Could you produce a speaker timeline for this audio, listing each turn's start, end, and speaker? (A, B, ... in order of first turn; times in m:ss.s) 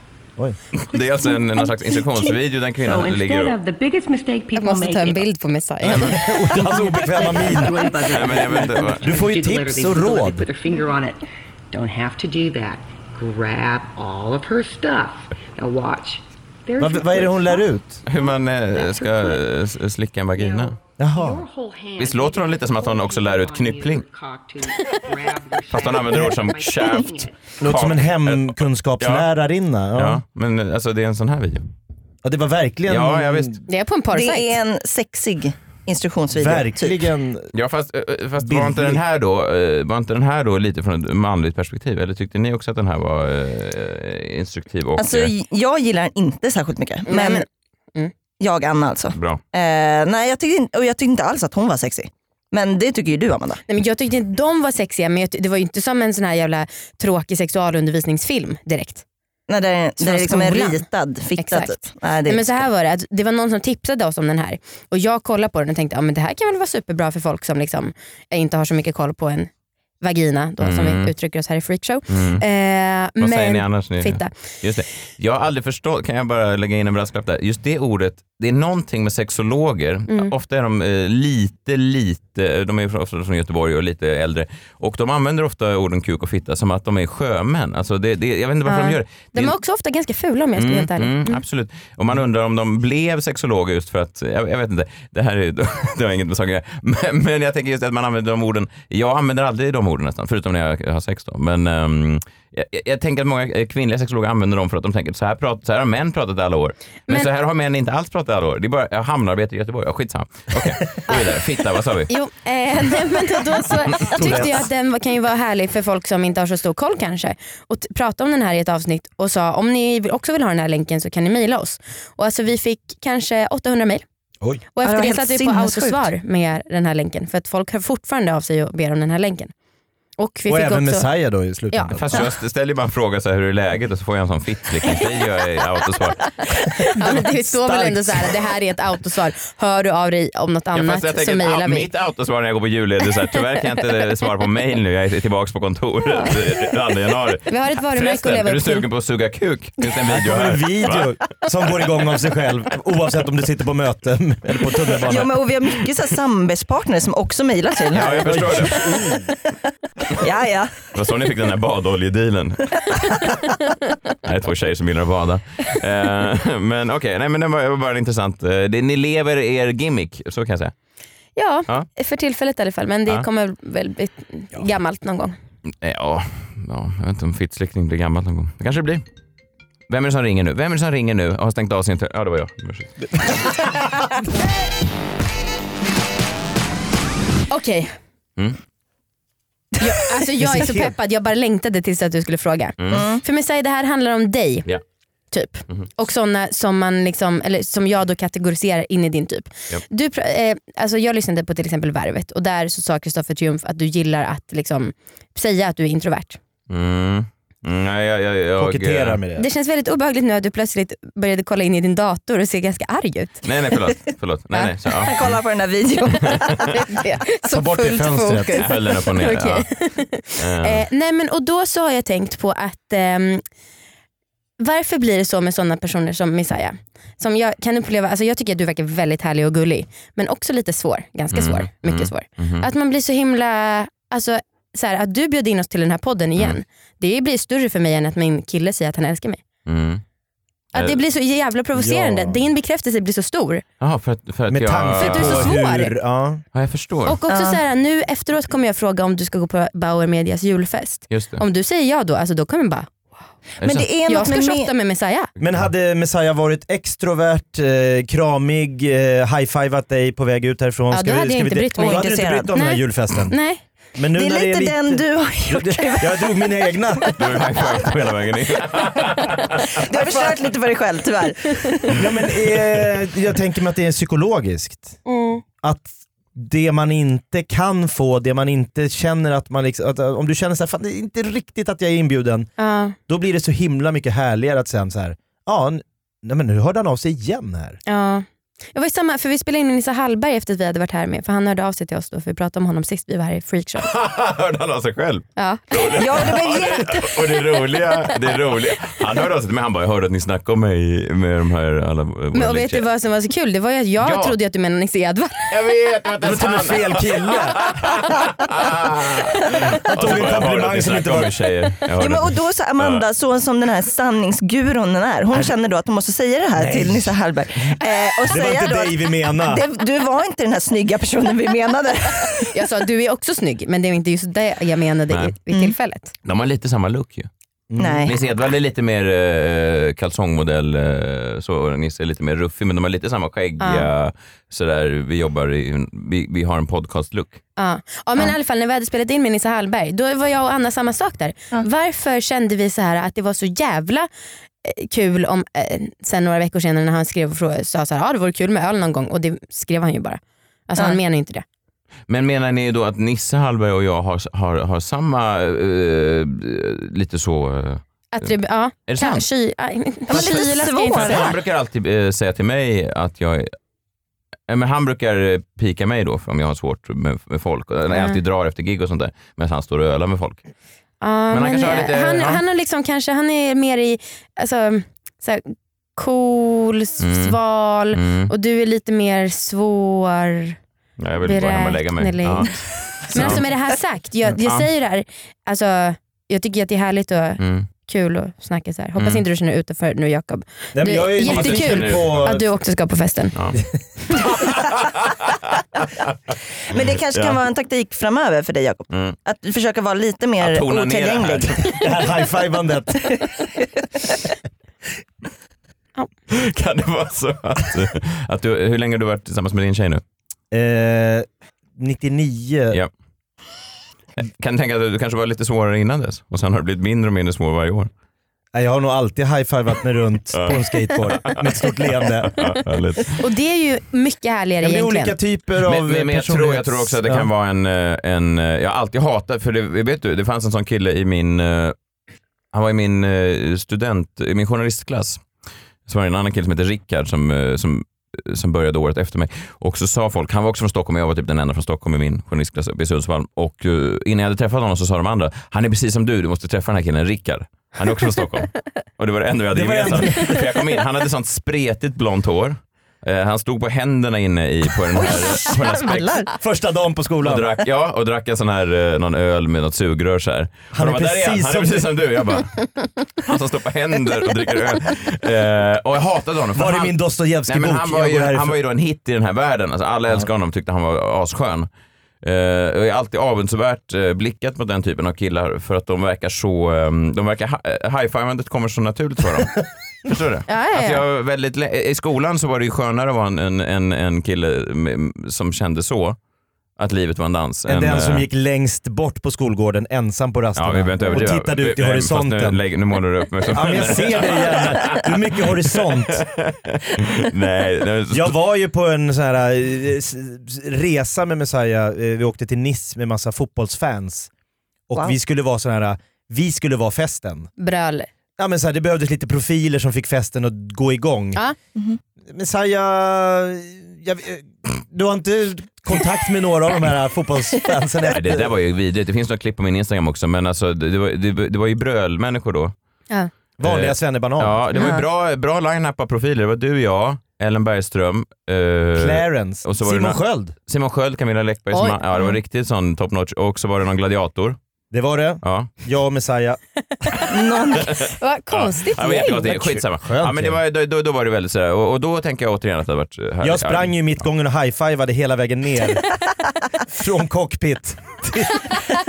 0:00.7-0:03.6 A
0:02.8-0:05.2 B
0:04.6-0:06.2 C
0:05.8-0:07.9 D
0:05.8-0:06.2 A
0:06.6-0:17.7 B
0:08.1-0:09.1 A
0:09.0-0:10.5 D
0:16.8-0:18.0 D
0:18.1-0:20.8 A
0:18.8-0:19.4 B
0:20.4-0:27.5 B
0:21.0-0:21.4 D
0:22.0-0:24.0 A
0:25.7-0:29.3 A
0:27.6-0:30.2 D
0:30.0-0:31.7 A
0:32.2-0:33.6 D
0:32.9-0:33.6 A
0:33.7-0:34.5 C
0:34.1-0:37.0 E
0:36.3-0:37.5 D
0:37.5-0:45.3 A
0:38.4-0:39.0 D
0:45.0-0:47.4 E
0:47.1-0:48.1 C
0:48.4-0:53.6 E
0:49.1-0:49.4 A
0:53.7-0:59.0 C
0:59.5-1:02.6 E
1:00.0-1:00.9 C
1:01.4-1:09.5 C
1:10.0-1:14.3 C
1:10.6-1:11.1 A
1:12.1-1:12.4 A
1:13.2-1:29.6 A
1:28.7-1:31.4 C
1:30.6-1:52.1 A
1:52.1-2:04.0 C
1:54.1-1:54.6 D
2:04.7-2:09.5 C
2:04.8-2:06.1 E
2:10.2-2:11.1 C
2:10.5-2:12.2 D
2:12.0-2:16.2 A
2:16.8-2:21.9 C
2:17.0-2:18.3 D
2:20.7-2:31.1 A
2:27.5-2:28.9 C
2:30.1-2:35.4 D
2:35.0-2:38.8 E
2:37.9-2:38.8 A
2:38.2-2:39.3 D
2:40.1-2:40.9 E
2:40.9-2:42.8 A
2:44.2-2:50.7 A
2:51.4-2:55.4 C
2:55.8-2:59.0 A
2:59.9-3:03.1 A
3:07.5-3:08.0 C
3:09.8-3:14.7 C
3:10.4-3:10.9 D
3:12.8-3:13.1 A
3:12.9-3:13.2 E
3:15.3-3:26.4 C
3:26.7-3:29.2 A
3:28.6-3:29.5 D
3:29.4-3:33.4 C
3:33.4-3:35.4 A
3:35.1-3:36.7 E
3:36.3-3:36.6 A
3:36.7-3:43.4 C
3:37.5-3:38.7 D
3:38.6-3:39.7 A
3:40.4-3:40.8 A
3:44.6-3:59.4 C
3:51.3-3:52.7 A
3:59.7-4:00.0 A
4:00.7-4:03.6 C
4:01.8-4:02.4 D
4:03.8-4:05.5 A
4:04.5-4:06.4 D
4:05.0-4:05.9 C
4:06.5-4:07.2 A
4:07.1-4:12.9 C
4:07.3-4:07.6 E
4:11.1-4:11.4 A
4:13.6-4:14.7 E
4:13.6-4:13.9 A
4:14.1-4:15.3 C
4:15.4-4:23.4 D
4:20.9-4:23.6 C
4:21.8-4:22.5 E
4:24.0-4:27.2 D
4:24.2-4:26.3 E
4:27.2-4:29.7 A
4:29.7-4:32.0 E
4:31.9-4:35.0 D
4:35.1-4:35.4 C
4:35.6-4:42.5 D
4:42.6-4:43.0 C
4:43.1-4:47.8 D
4:47.9-4:53.9 C
4:53.8-5:02.9 A
4:55.4-4:55.6 C
4:55.9-4:57.2 E
5:02.3-5:05.5 C
5:04.0-5:04.4 A
5:05.5-5:13.0 A
5:06.2-5:07.6 D
5:09.8-5:11.5 D
5:12.0-5:22.5 E
5:16.6-5:17.8 D
5:18.3-5:19.6 D
5:22.5-5:26.1 C
5:26.2-5:27.3 A
5:27.7-5:28.1 D
5:27.8-5:28.1 E
5:28.1-5:37.4 A
5:33.6-5:33.9 C
5:37.6-5:44.1 C
5:44.6-5:51.4 C
5:52.1-5:58.3 A
5:58.1-6:01.3 C
5:58.9-5:59.2 A
6:00.1-6:01.4 E
6:00.1-6:03.5 A
6:04.5-6:10.4 A
6:07.9-6:08.2 C
6:11.0-6:20.6 C
6:11.3-6:12.4 A
6:17.0-6:17.4 A
6:17.9-6:18.3 A
6:21.0-6:23.4 A
6:21.2-6:22.6 C
6:23.1-6:33.3 C
6:24.4-6:24.7 A
6:27.4-6:27.7 A
6:29.0-6:29.2 A
6:30.7-6:32.4 D
6:31.2-6:32.4 A
6:34.2-6:35.4 A
6:36.7-6:41.7 E
6:36.8-6:37.4 A
6:38.9-6:39.2 A
6:40.4-6:41.8 A
6:41.8-6:43.4 D
6:46.3-6:50.0 A
6:50.5-6:52.8 D
6:54.2-6:57.9 A
6:58.5-7:02.5 D
7:00.3-7:01.4 A
7:02.2-7:03.2 A
7:03.2-7:05.2 C
7:04.6-7:07.3 D
7:05.6-7:11.8 A
7:12.5-7:15.2 A
7:15.9-7:36.2 A
7:29.5-7:30.5 D
7:35.4-7:36.3 E
7:36.4-7:37.5 D
7:37.2-7:47.0 A
7:40.7-7:41.9 D
7:46.6-7:48.6 D
7:47.5-7:51.7 A
7:52.2-8:06.2 A
8:00.5-8:01.0 C
8:06.8-8:08.3 A
8:07.7-8:12.6 D
8:10.6-8:18.3 A
8:13.5-8:16.3 D
8:18.1-8:24.3 D
8:24.9-8:27.5 D
8:27.6-8:28.1 C
8:28.4-8:31.4 D
8:32.3-8:38.5 D
8:38.1-8:42.7 A
8:43.6-8:44.7 D
8:43.6-8:54.6 A
8:44.8-8:45.0 E
8:49.0-8:50.6 D
8:54.9-8:56.6 D
8:55.4-8:55.7 A
8:57.3-8:58.0 E
8:58.0-9:04.1 A
8:58.0-8:59.6 C
8:59.4-9:00.6 D
9:03.4-9:06.0 D
9:06.9-9:08.8 D